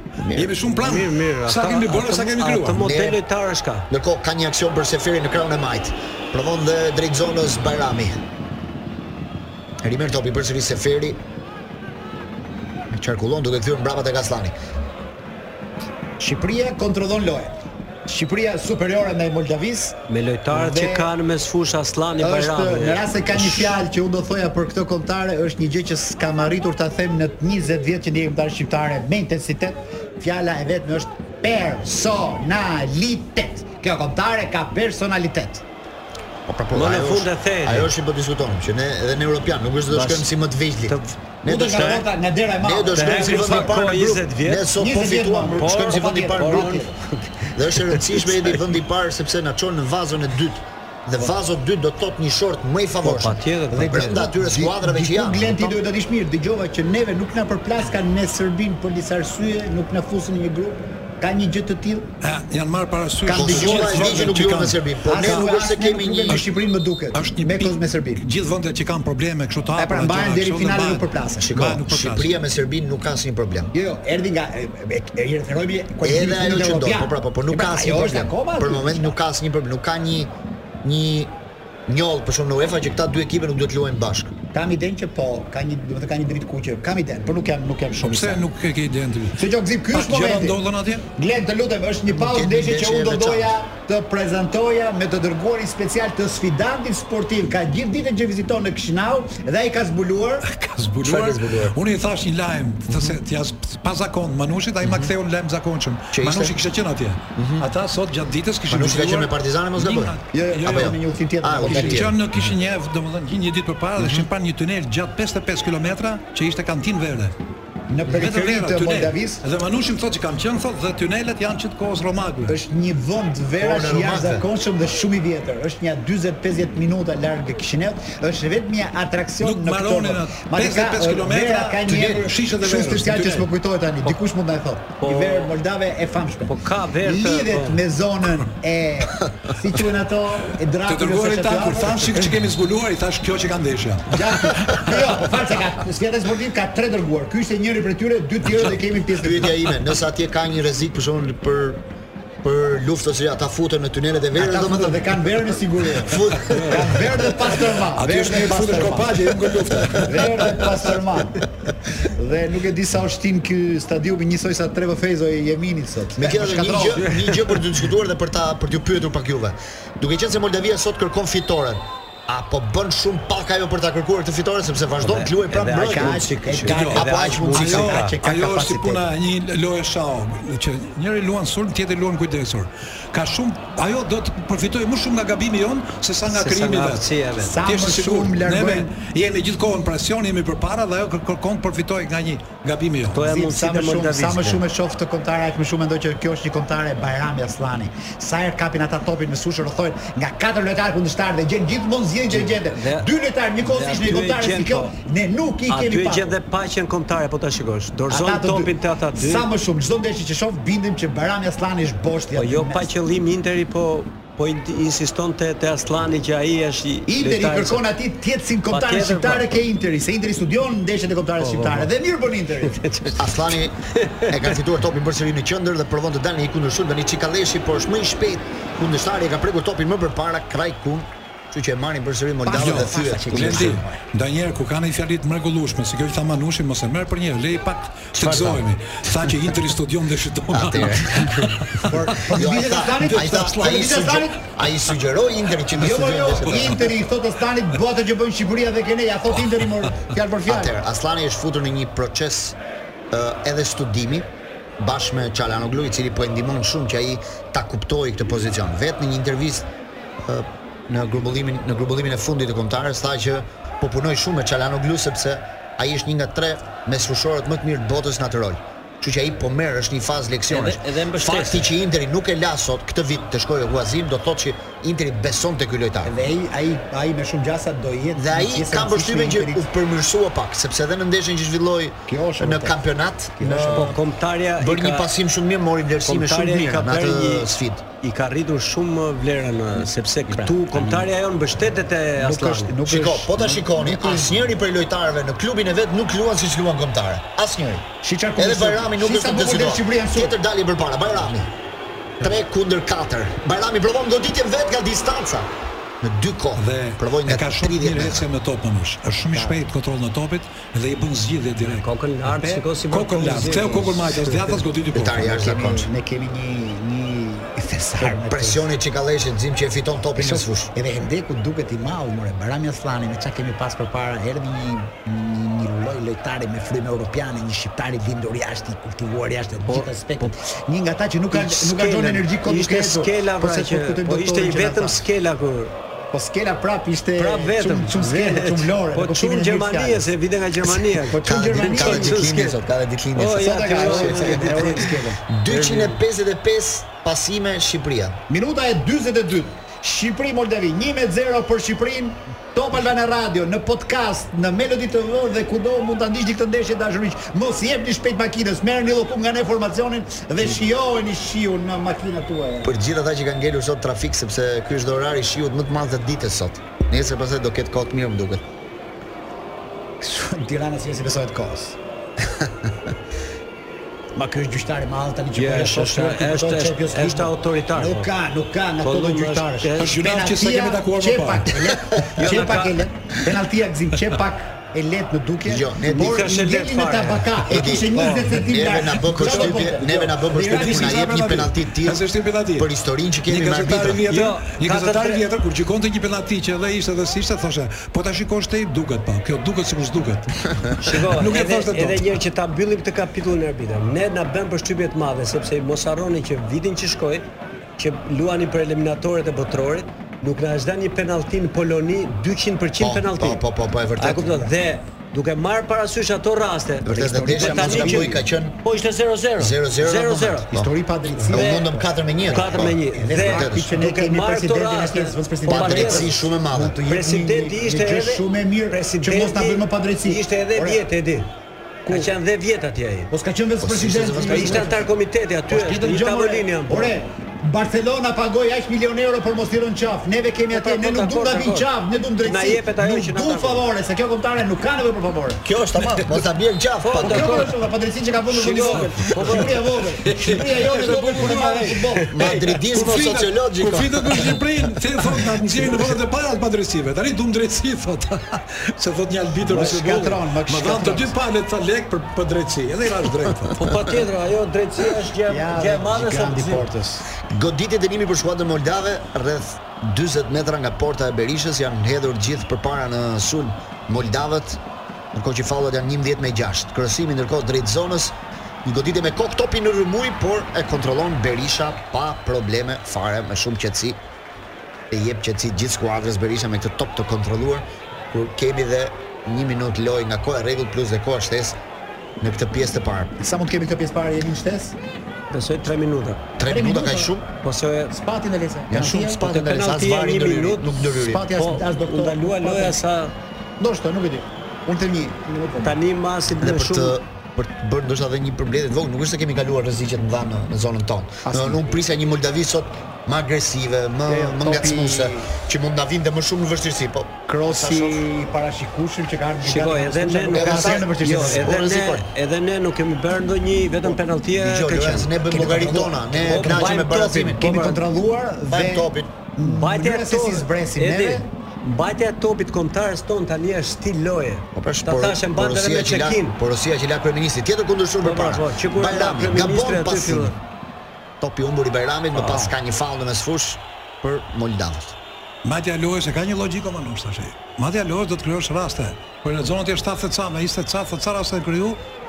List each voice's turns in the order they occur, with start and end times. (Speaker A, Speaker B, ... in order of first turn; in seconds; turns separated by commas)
Speaker A: 0.2-0.6, Speaker B: 0.3-2.9, Speaker C: 0.7-3.9, Speaker A: 2.8-3.2, Speaker A: 3.9-8.2, Speaker A: 9.8-11.2, Speaker A: 12.9-14.6, Speaker D: 16.2-19.9, Speaker C: 20.1-23.1, Speaker D: 20.5-21.1, Speaker D: 22.2-35.6, Speaker A: 36.5-42.0, Speaker C: 36.7-37.9, Speaker C: 39.9-40.3, Speaker C: 40.8-41.1, Speaker D: 41.4-43.7, Speaker C: 41.8-42.0, Speaker A: 42.6-46.8, Speaker C: 42.9-44.7, Speaker D: 44.8-46.9, Speaker C: 45.5-48.2, Speaker A: 47.5-55.8, Speaker C: 53.0-54.2, Speaker D: 53.7-62.1, Speaker B: 62.2-65.5, Speaker D: 63.2-64.3, Speaker A: 63.3-66.4, Speaker D: 65.0-68.2, Speaker B: 67.1-72.3, Speaker D: 69.8-71.5, Speaker A: 71.4-73.7, Speaker D: 73.7-79.1, Speaker A: 76.0-80.3, Speaker A: 80.8-81.3, Speaker A: 81.9-84.3, Speaker D: 84.5-88.4, Speaker B: 88.0-91.1, Speaker D: 89.4-90.6, Speaker D: 91.2-100.4, Speaker A: 92.1-93.5, Speaker B: 100.4-111.0, Speaker A: 101.0-101.8, Speaker A: 102.9-103.2, Speaker A: 104.8-105.1, Speaker A: 106.1-106.5, Speaker A: 107.3-107.7, Speaker A: 108.7-112.3, Speaker D: 110.3-112.1, Speaker B: 111.6-117.3, Speaker A: 114.0-114.3, Speaker D: 117.9-119.4, Speaker B: 118.1-122.6, Speaker D: 122.5-142.3, Speaker A: 123.6-124.5, Speaker B: 129.4-133.5, Speaker A: 131.9-132.3, Speaker C: 135.0-135.5, Speaker C: 136.5-137.8, Speaker B: 140.8-145.0, Speaker D: 144.1-149.5, Speaker A: 149.2-151.8, Speaker A: 152.4-155.2, Speaker D: 154.3-159.1, Speaker A: 156.0-157.1, Speaker B: 156.5-156.8, Speaker B: 157.9-160.7, Speaker A: 159.7-160.0, Speaker D: 160.0-161.5, Speaker D: 162.0-167.2, Speaker A: 166.2-178.0, Speaker C: 175.0-178.1, Speaker D: 175.7-179.0, Speaker B: 176.7-187.1, Speaker C: 186.3-187.6, Speaker D: 187.4-188.9, Speaker B: 187.6-193.2, Speaker C: 193.1-194.6, Speaker D: 193.2-206.4, Speaker C: 202.3-203.1, Speaker C: 203.6-204.9, Speaker C: 205.7-209.5, Speaker D: 208.1-212.9, Speaker C: 212.3-217.8, Speaker D: 217.1-222.8, Speaker C: 218.7-219.6, Speaker C: 221.4-221.9, Speaker C: 222.7-223.3, Speaker A: 223.2-233.8, Speaker C: 223.9-224.4, Speaker D: 232.4-234.0, Speaker B: 232.5-242.2, Speaker A: 238.1-239.4, Speaker A: 240.5-246.9, Speaker D: 241.8-244.4, Speaker B: 242.9-243.4, Speaker D: 245.7-250.7, Speaker B: 246.4-246.8, Speaker A: 250.4-252.6, Speaker A: 253.1-254.3, Speaker A: 254.8-259.7, Speaker A: 260.2-276.1, Speaker C: 270.5-271.8, Speaker D: 276.0-279.6, Speaker A: 278.1-284.0, Speaker D: 282.1-282.8, Speaker D: 283.4-284.0, Speaker C: 283.7-285.1, Speaker A: 284.6-287.8, Speaker C: 286.0-292.8, Speaker D: 290.3-291.1, Speaker D: 292.2-294.4, Speaker A: 292.8-301.5, Speaker D: 298.0-300.3, Speaker A: 302.2-305.5, Speaker A: 306.0-308.3, Speaker B: 306.6-311.9, Speaker D: 309.3-309.6, Speaker C: 311.8-314.5, Speaker D: 312.4-312.7, Speaker B: 312.9-315.4, Speaker D: 313.2-313.9, Speaker A: 314.9-315.9, Speaker D: 315.3-318.6, Speaker A: 318.0-320.7, Speaker D: 320.1-335.0, Speaker C: 329.7-330.3, Speaker C: 331.3-335.7, Speaker D: 336.1-340.1, Speaker C: 337.2-342.6, Speaker D: 340.7-342.3, Speaker A: 341.2-348.2, Speaker C: 343.1-344.9, Speaker D: 343.3-345.2, Speaker C: 345.4-346.0, Speaker D: 348.3-362.7, Speaker A: 362.6-368.4, Speaker D: 370.0-371.8, Speaker D: 374.1-391.0, Speaker C: 375.3-378.1, Speaker C: 378.8-379.9, Speaker B: 379.8-381.6, Speaker A: 381.8-382.2, Speaker C: 382.1-382.9, Speaker A: 385.4-386.3, Speaker C: 385.8-387.4, Speaker A: 387.5-392.0, Speaker C: 388.0-388.3, Speaker B: 389.2-389.6, Speaker B: 390.4-392.7, Speaker A: 392.6-394.0, Speaker B: 393.3-402.2, Speaker C: 394.1-395.2, Speaker C: 400.8-407.3, Speaker C: 407.8-413.4, Speaker A: 412.8-414.5, Speaker C: 414.0-420.5, Speaker A: 416.8-418.6, Speaker D: 416.9-418.2, Speaker A: 419.4-423.7, Speaker D: 420.5-430.8, Speaker C: 421.2-421.7, Speaker C: 422.3-426.1, Speaker A: 425.5-426.8, Speaker C: 426.8-431.3, Speaker D: 431.9-432.1, Speaker C: 431.9-433.1, Speaker D: 433.1-434.9, Speaker A: 433.6-434.8, Speaker C: 434.3-436.9, Speaker D: 435.5-445.4, Speaker C: 440.5-441.7, Speaker C: 442.2-443.6, Speaker A: 445.4-447.5, Speaker C: 446.8-447.5, Speaker D: 447.0-452.2, Speaker C: 448.3-449.9, Speaker B: 449.4-463.7, Speaker C: 451.9-452.3, Speaker A: 452.1-454.4, Speaker D: 459.4-461.1, Speaker C: 463.5-466.7, Speaker D: 465.2-467.1, Speaker A: 467.2-474.6, Speaker A: 475.1-484.0, Speaker A: 484.9-491.6, Speaker A: 492.2-493.1, Speaker D: 493.2-494.8, Speaker C: 495.3-496.2, Speaker A: 496.4-497.3, Speaker D: 496.4-497.1, Speaker C: 497.4-497.9, Speaker D: 497.9-499.2, Speaker A: 498.7-501.3, Speaker C: 499.2-503.1, Speaker D: 501.0-502.8, Speaker D: 503.6-505.8, Speaker C: 505.6-507.0, Speaker A: 506.4-518.0, Speaker D: 511.2-511.7, Speaker D: 514.1-515.3, Speaker D: 517.3-521.5, Speaker C: 519.4-525.1, Speaker A: 520.3-522.1, Speaker A: 524.3-527.6, Speaker D: 525.2-531.2, Speaker C: 526.2-527.8, Speaker A: 528.5-529.1, Speaker C: 529.4-536.4, Speaker A: 534.5-540.3, Speaker C: 538.0-540.3, Speaker A: 541.2-545.0, Speaker B: 545.4-551.8